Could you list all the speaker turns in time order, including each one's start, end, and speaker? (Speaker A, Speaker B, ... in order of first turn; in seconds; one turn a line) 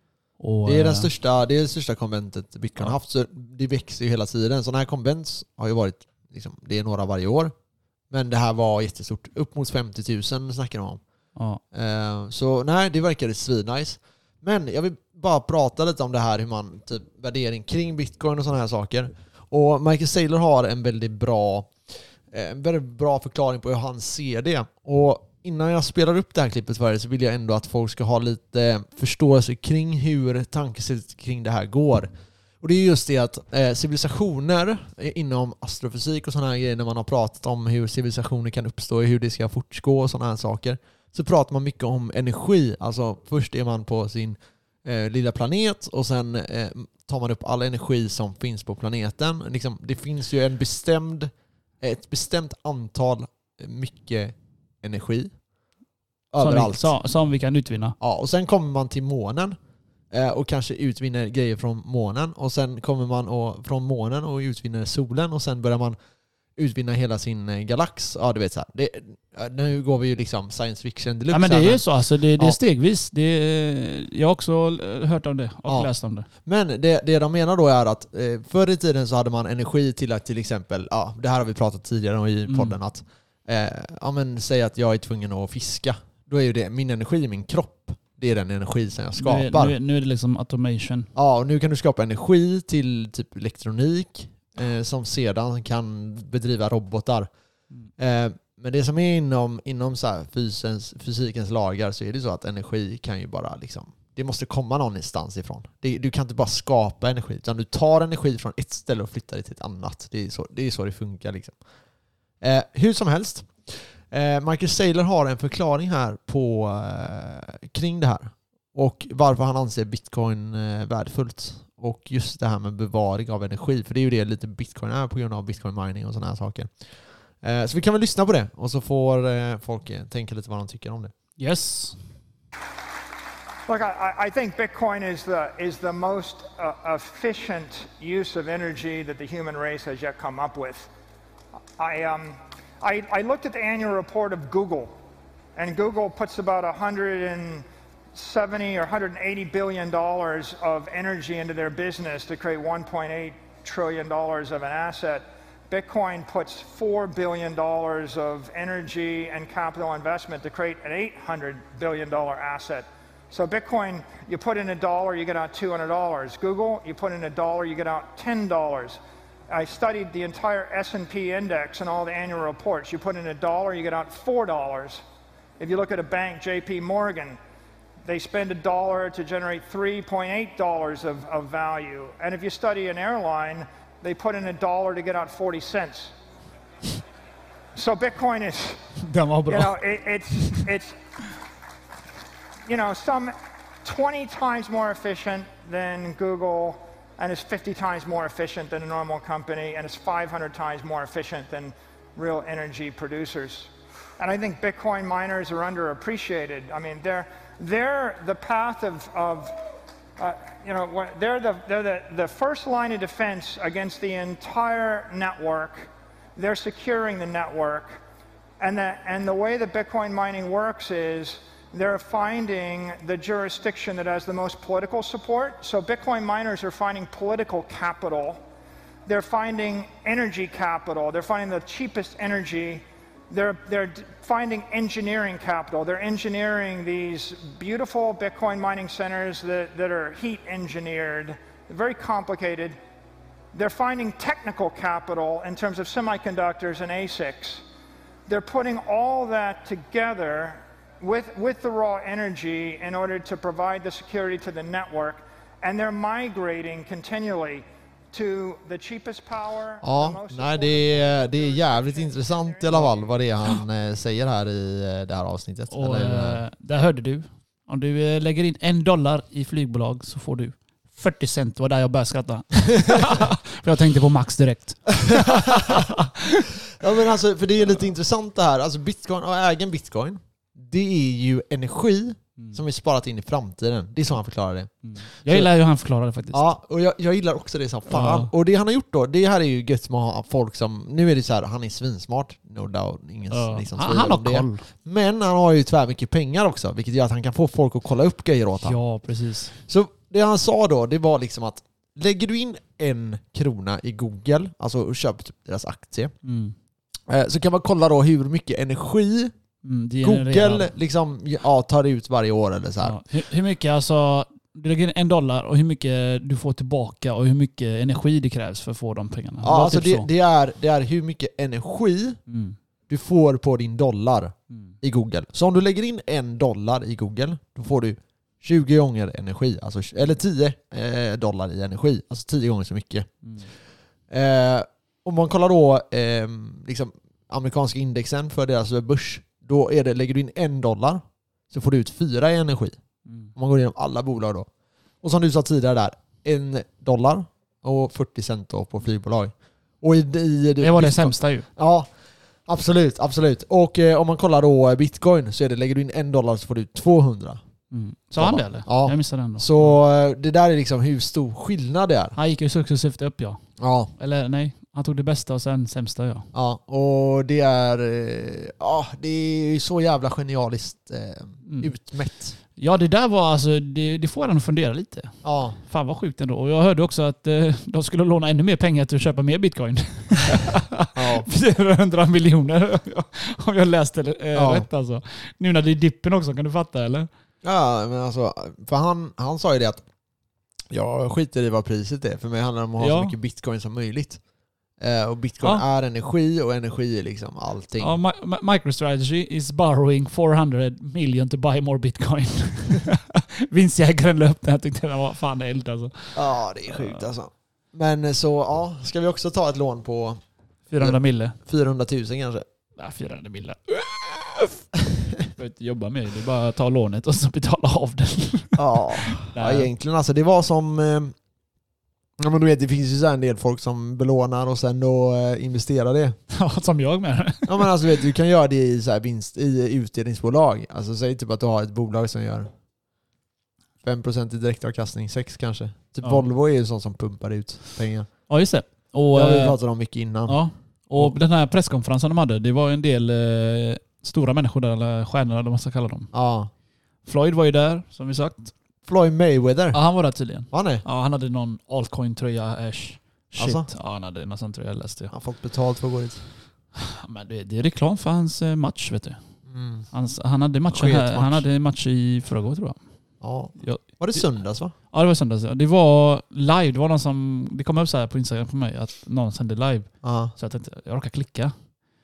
Speaker A: 0.4-1.1
Speaker B: 0.7-7.5
Speaker B: 8.1-11.0
Speaker A: 11.4-11.6
Speaker B: 11.7-21.7
Speaker B: 22.3-32.1
Speaker B: 32.6-55.3
Speaker B: 56.3-56.9
Speaker A: 56.4-58.0
Speaker B: 58.0-59.6
Speaker B: 60.1-66.0
Speaker B: 66.6-71.8
Speaker A: 71.3-76.3
Speaker B: 76.5-89.8
Speaker A: 82.5-82.8
Speaker A: 89.2-91.1
Speaker B: 91.2-97.3
Speaker B: 98.0-111.6
Speaker B: 112.4-126.7
Speaker B: 127.4-131.1
Speaker A: 131.4-132.0
Speaker C: 133.7-140.9
Speaker C: 141.8-144.9
Speaker C: 145.6-175.0
Speaker C: 175.6-177.4
Speaker C: 178.1-186.1
Speaker C: 187.8-188.8
Speaker A: 189.0-189.8
Speaker C: 189.5-190.9
Speaker C: 192.7-209.6
Speaker C: 210.2-218.0
Speaker C: 218.6-228.4
Speaker C: 229.1-242.8
Speaker C: 243.5-247.6
Speaker C: 248.3-263.2
Speaker B: 259.8-266.4
Speaker A: 265.7-276.5
Speaker B: 275.1-275.9
Speaker B: 276.8-285.5
Speaker A: 284.8-286.5
Speaker B: 286.3-298.8
Speaker A: 287.9-288.3
Speaker A: 293.3-294.6
Speaker A: 298.6-299.6
Speaker B: 299.7-306.1
Speaker A: 306.2-306.6
Speaker B: 307.1-309.3
Speaker A: 309.6-310.7
Speaker B: 310.0-313.0
Speaker A: 312.8-320.1
Speaker B: 319.4-322.2
Speaker A: 322.3-322.6
Speaker B: 322.9-333.1
Speaker A: 333.2-333.5
Speaker B: 334.1-342.8
Speaker A: 343.1-343.3
Speaker B: 343.4-344.5
Speaker B: 345.0-351.9
Speaker A: 350.6-351.5
Speaker B: 352.5-357.4
Speaker A: 357.7-359.8
Speaker B: 358.2-362.2
Speaker A: 362.1-363.4
Speaker B: 363.6-363.9
Speaker A: 364.0-366.3
Speaker B: 366.3-372.4
Speaker A: 371.5-371.7
Speaker A: 372.6-387.1
Speaker B: 375.2-375.6
Speaker B: 380.9-381.3
Speaker B: 384.4-384.7
Speaker B: 387.4-389.8
Speaker B: 390.7-394.2
Speaker A: 392.8-393.1
Speaker B: 394.8-398.0
Speaker A: 397.8-407.1
Speaker B: 406.1-410.2
Speaker A: 410.7-411.4
Speaker B: 410.8-412.4
Speaker A: 412.8-414.6
Speaker A: 415.3-419.7
Speaker B: 418.6-421.1
Speaker B: 422.2-426.2
Speaker A: 426.3-427.7
Speaker B: 427.5-432.5
Speaker B: 433.8-438.1
Speaker A: 438.3-439.6
Speaker B: 439.1-440.4
Speaker A: 440.3-446.1
Speaker B: 446.1-446.5
Speaker A: 447.1-448.5
Speaker B: 448.9-449.8
Speaker A: 449.7-455.1
Speaker B: 450.5-450.8
Speaker B: 453.4-453.7
Speaker B: 455.1-456.2
Speaker A: 456.8-459.2
Speaker B: 459.5-459.9
Speaker A: 459.9-462.8
Speaker B: 460.7-461.4
Speaker B: 463.2-464.7
Speaker A: 463.6-464.3
Speaker A: 464.9-471.5
Speaker B: 470.0-470.3